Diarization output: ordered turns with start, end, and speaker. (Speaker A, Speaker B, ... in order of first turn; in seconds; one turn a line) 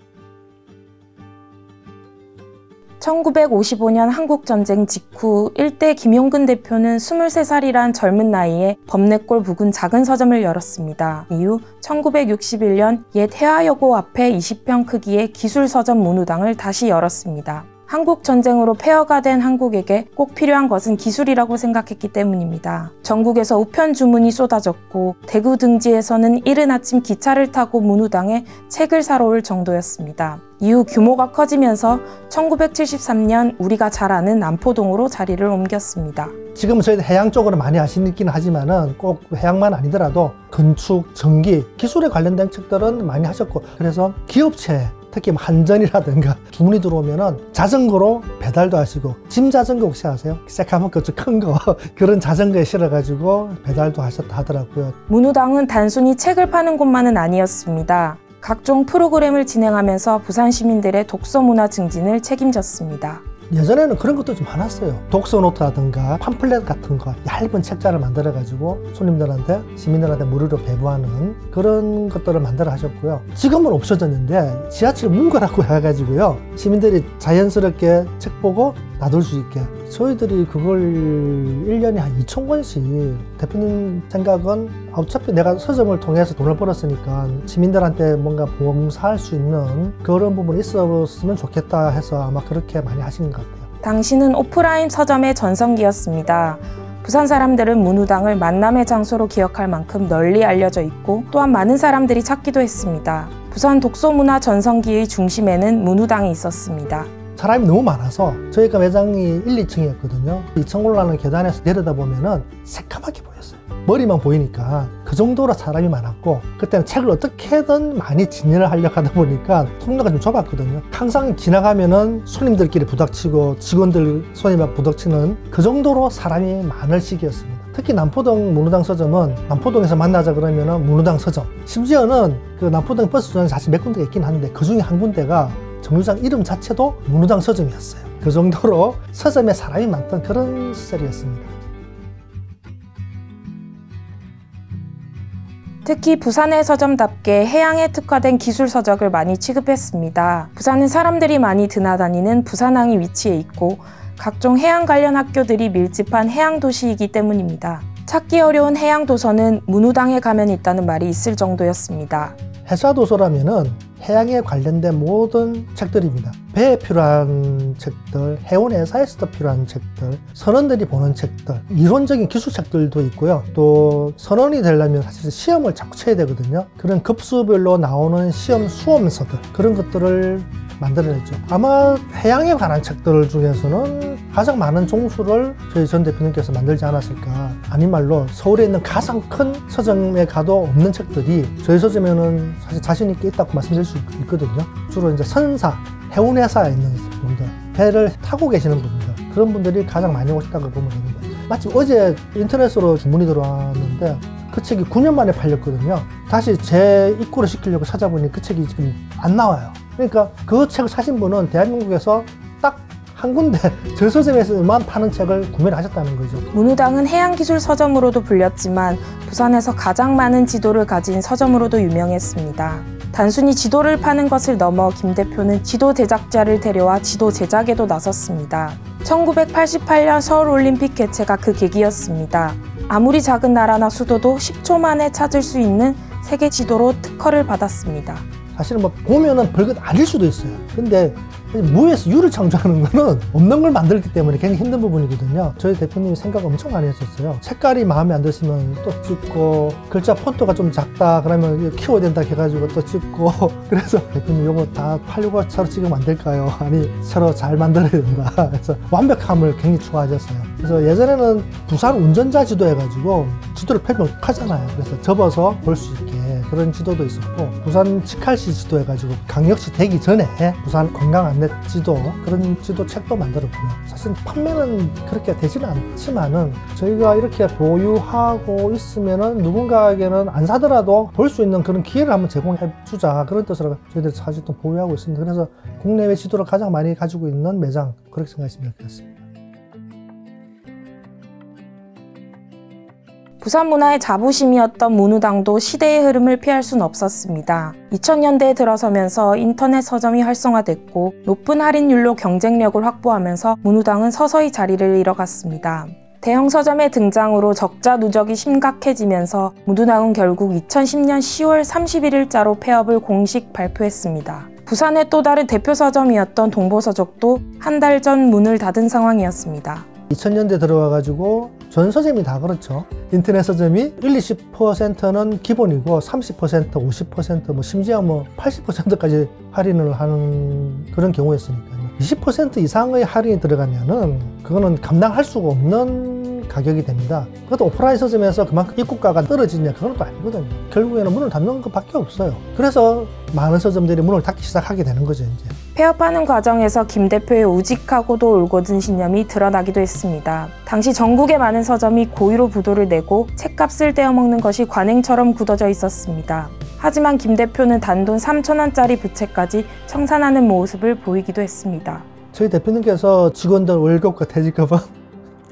Speaker A: 3.0-36.3
Speaker B: 36.5-55.0
Speaker A: 55.1-63.2
Speaker B: 63.5-93.7
Speaker A: 93.8-107.1
Speaker B: 107.3-141.5
Speaker A: 145.8-162.4
Speaker B: 162.7-216.4
Speaker A: 216.5-238.2
Speaker B: 238.5-289.1
Speaker A: 293.4-319.9
Speaker B: 320.1-345.5
Speaker A: 345.7-362.1
Speaker B: 362.3-364.9